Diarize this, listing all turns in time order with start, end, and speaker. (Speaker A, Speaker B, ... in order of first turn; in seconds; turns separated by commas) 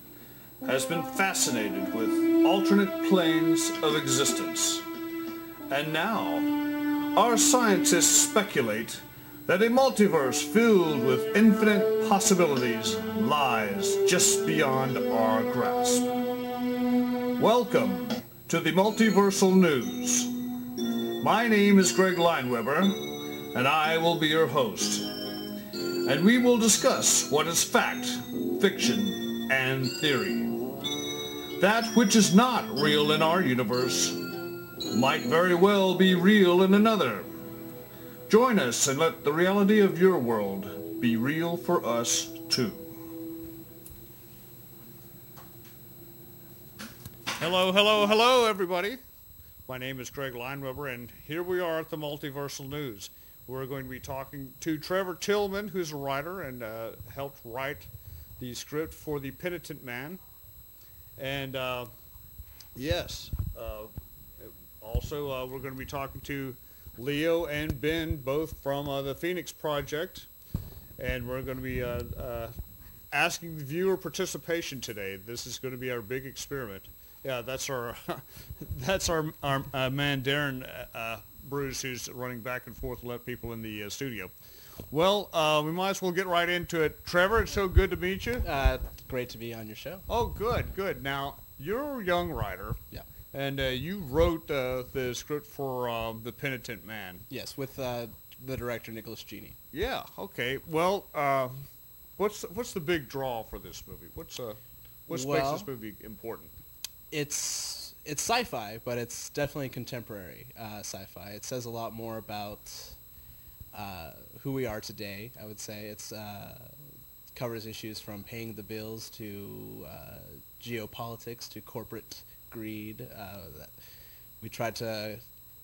Speaker A: 0.6-4.9, Speaker A: 5.7-16.2, Speaker A: 17.4-20.4, Speaker A: 21.2-25.4, Speaker A: 26.0-30.8, Speaker A: 31.6-34.2, Speaker A: 34.9-37.3, Speaker A: 38.3-43.0, Speaker A: 47.4-49.0, Speaker A: 49.7-60.2, Speaker A: 61.2-61.9, Speaker A: 62.7-70.3, Speaker A: 71.0-72.5, Speaker A: 73.1-84.3, Speaker A: 84.9-88.5, Speaker B: 88.4-90.0, Speaker A: 90.1-92.8, Speaker A: 93.3-97.2, Speaker B: 97.3-99.6, Speaker A: 99.7-106.5, Speaker B: 105.1-105.7, Speaker B: 107.1-113.0, Speaker B: 113.7-116.8, Speaker B: 117.3-123.7, Speaker B: 124.4-125.2